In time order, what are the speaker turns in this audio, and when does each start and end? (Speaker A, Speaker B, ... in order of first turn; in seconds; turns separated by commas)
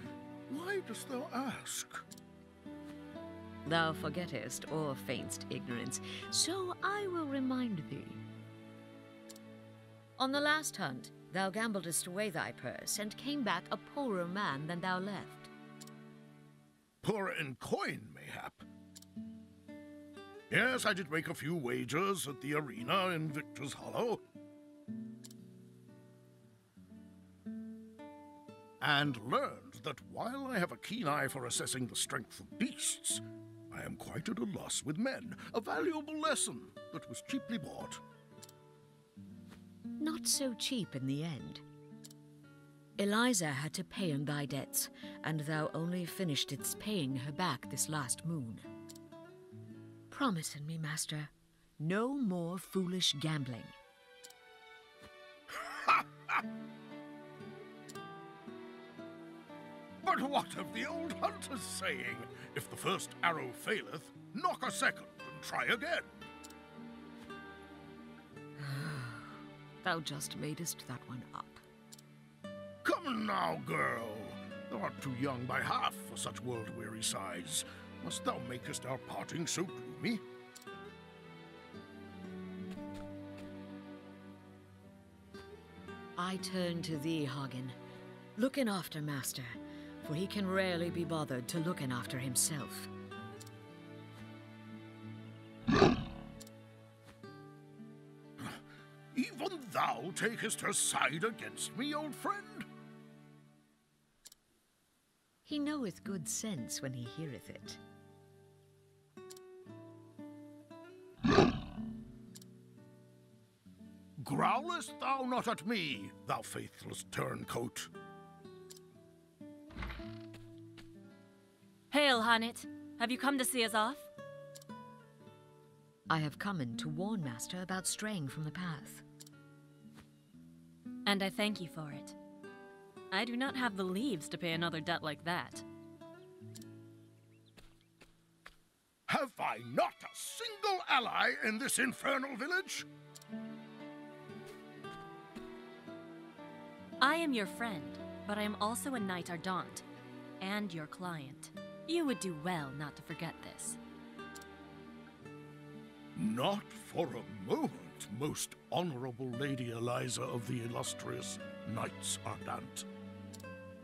Speaker A: 0.5-2.0, Speaker B: 3.6-8.2, Speaker B: 10.2-15.5, Speaker A: 17.0-18.6, Speaker A: 20.5-24.2, Speaker A: 28.8-38.0, Speaker B: 40.0-41.6, Speaker B: 43.0-48.6, Speaker B: 50.1-53.7, Speaker A: 55.5-56.4, Speaker A: 60.0-66.2, Speaker B: 68.6-71.6, Speaker A: 72.8-80.2, Speaker B: 86.2-87.8, Speaker B: 88.4-92.9, Speaker A: 98.4-102.7, Speaker B: 105.5-107.8, Speaker A: 114.2-117.9, Speaker C: 121.9-124.1, Speaker B: 126.1-129.0, Speaker C: 131.1-132.2, Speaker C: 133.1-135.6, Speaker A: 139.1-142.9, Speaker C: 147.0-149.8, Speaker C: 150.4-153.8, Speaker A: 156.2-162.9